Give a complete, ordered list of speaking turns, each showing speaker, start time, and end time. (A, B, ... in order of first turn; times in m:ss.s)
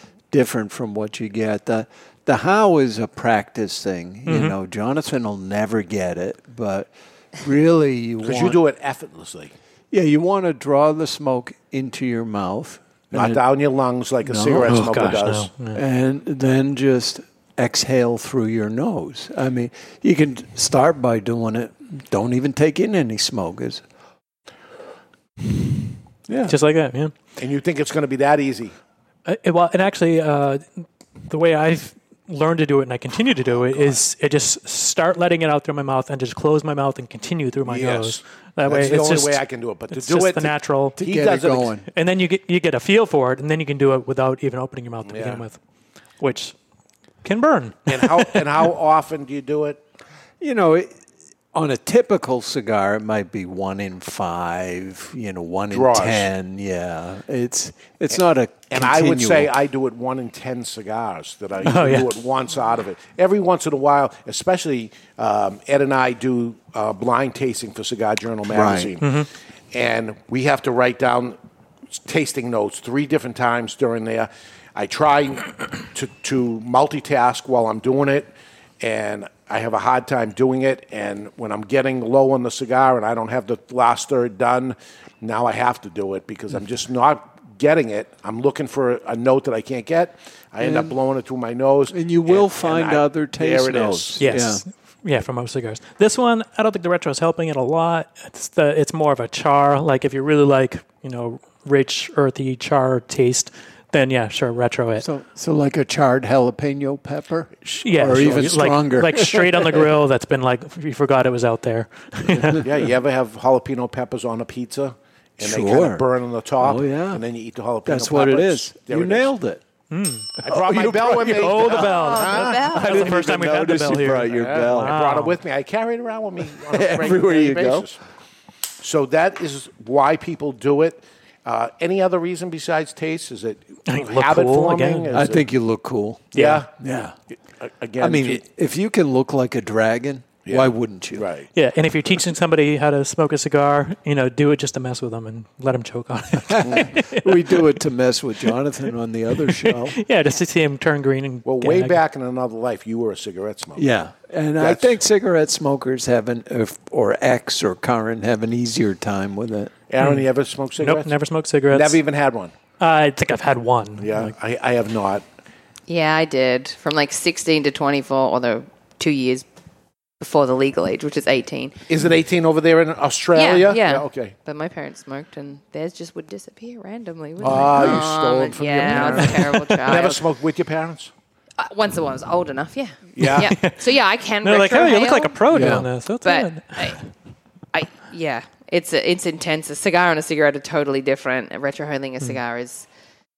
0:00.3-0:08.6 A
0:04.2-0:04.6 B
0:08.2-0:09.5 C
0:09.9-0:13.4 A
0:13.1-0:15.5 C
0:14.2-0:15.1 A
0:14.7-0:15.8 B
0:15.7-0:23.8 A
0:26.3-0:26.6 A
0:26.5-0:27.1 B
0:27.4-0:28.7 C
0:29.2-0:41.0 B
0:33.7-0:34.0 C
0:37.6-0:41.7 C
0:41.0-0:41.9 A
0:41.9-0:45.6 B
0:45.0-0:45.4 C
0:46.2-0:46.5 B
0:47.2-0:48.4 B
0:47.9-0:49.8 C
0:50.4-0:50.9 A
0:51.5-0:59.5 A
0:55.7-0:56.3 C
0:58.7-1:09.2 C
1:01.6-1:02.1 B
1:08.5-1:08.9 A
1:09.0-1:09.3 B
1:09.7-1:11.4 C
1:12.0-1:34.4 C
1:30.6-1:30.9 A
1:31.9-1:34.6 A
1:34.2-1:45.0 B
1:45.0-1:49.9 A
1:47.8-1:52.6 B
1:52.6-1:59.3 C
1:55.4-1:56.1 A
1:56.6-1:57.2 A
1:57.8-1:59.6 A
1:59.9-2:00.3 B
2:00.4-2:01.8 A
2:00.4-2:08.0 C
2:01.1-2:05.4 B
2:01.9-2:03.1 D
2:02.7-2:05.0 A
2:06.6-2:07.9 A
2:08.8-2:15.5 C
2:13.9-2:15.2 B
2:15.1-2:17.1 A
2:16.3-2:16.7 C
2:16.3-2:16.6 B
2:17.6-2:18.4 C
2:18.0-2:21.3 A
2:20.4-2:21.5 C
2:21.5-2:27.6 B
2:26.5-2:30.0 A
2:29.4-2:32.0 B
2:31.4-2:33.9 C
2:33.8-2:39.7 A
2:34.6-2:35.0 C
2:39.9-2:41.2 C
2:40.0-2:40.3 B
2:40.8-2:42.0 B
2:41.7-2:42.5 C
2:42.8-2:44.3 B
2:44.0-2:45.2 C
2:45.9-2:49.4 D
2:50.2-2:51.7 D
2:51.9-2:54.3 C
2:53.3-3:00.2 D
2:57.4-3:01.1 C
2:59.0-2:59.6 B
3:01.6-3:05.7 D
3:03.2-3:03.5 C
3:03.2-3:03.8 B
3:04.4-3:07.0 B
3:05.5-3:05.9 A
3:06.2-3:07.0 D
3:07.7-3:12.9 D